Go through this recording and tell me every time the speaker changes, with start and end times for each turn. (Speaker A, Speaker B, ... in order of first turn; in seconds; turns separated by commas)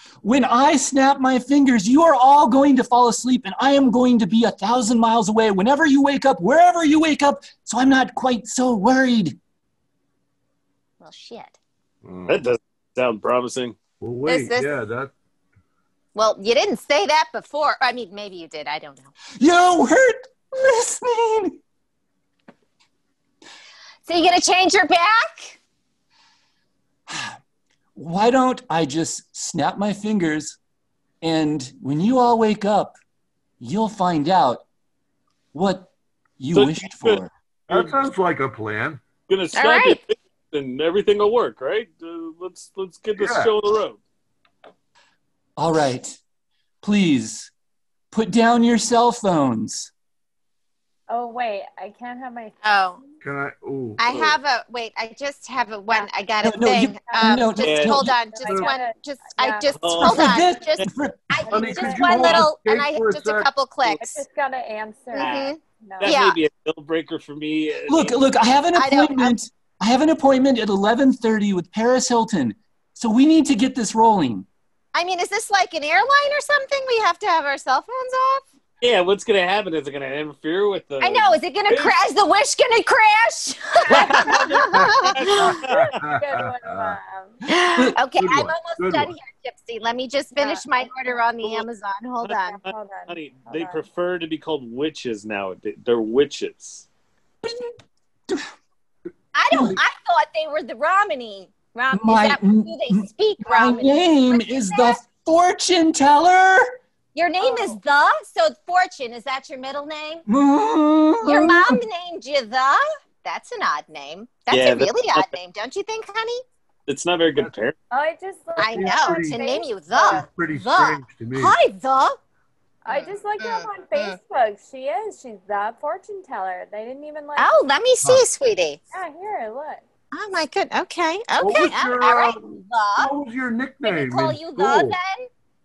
Speaker A: 0.2-9.4, Speaker B: 11.0-11.6, Speaker C: 12.0-12.4, Speaker D: 12.3-13.8, Speaker C: 14.0-15.1, Speaker B: 14.2-14.7, Speaker B: 16.1-19.1, Speaker A: 19.4-21.6, Speaker B: 24.1-25.6, Speaker A: 27.1-27.4, Speaker A: 27.9-30.6, Speaker A: 31.2-33.0, Speaker A: 33.6-34.6, Speaker A: 35.5-37.3, Speaker D: 36.5-37.9, Speaker C: 37.7-39.0, Speaker D: 39.3-44.0, Speaker B: 39.5-40.0, Speaker C: 43.1-43.5, Speaker A: 45.6-46.2, Speaker A: 46.8-47.5, Speaker A: 48.1-49.9, Speaker E: 51.1-52.5, Speaker B: 52.6-53.0, Speaker C: 53.2-54.0, Speaker B: 54.0-64.2, Speaker D: 54.1-54.3, Speaker A: 56.4-58.1, Speaker E: 57.0-59.7, Speaker D: 57.6-58.0, Speaker D: 59.8-60.5, Speaker A: 60.0-61.5, Speaker E: 61.5-62.1, Speaker C: 61.5-63.5, Speaker E: 64.0-66.2, Speaker B: 65.1-66.4, Speaker D: 65.2-65.5, Speaker D: 66.0-68.2, Speaker A: 67.9-74.5, Speaker B: 68.7-69.3, Speaker B: 74.9-78.5, Speaker D: 78.8-82.0, Speaker B: 81.0-85.6, Speaker E: 83.9-84.5, Speaker D: 83.9-86.0, Speaker C: 84.7-87.0, Speaker E: 85.2-87.4, Speaker B: 87.5-92.6, Speaker C: 87.7-89.2, Speaker E: 90.4-90.7, Speaker D: 92.2-96.8, Speaker E: 92.4-93.8, Speaker A: 97.4-97.7, Speaker B: 99.3-105.0, Speaker A: 99.5-99.8, Speaker A: 101.9-106.8, Speaker B: 107.1-110.2, Speaker E: 107.4-107.7, Speaker A: 110.2-111.8, Speaker B: 111.2-116.4, Speaker D: 114.5-115.3, Speaker D: 116.9-117.8, Speaker E: 117.9-120.2, Speaker B: 118.6-122.2, Speaker C: 118.6-119.4, Speaker C: 119.9-121.6, Speaker E: 122.8-127.6, Speaker B: 122.9-124.2, Speaker B: 127.4-128.8, Speaker E: 128.9-129.8, Speaker B: 130.1-133.1, Speaker C: 131.4-135.0, Speaker B: 133.8-135.3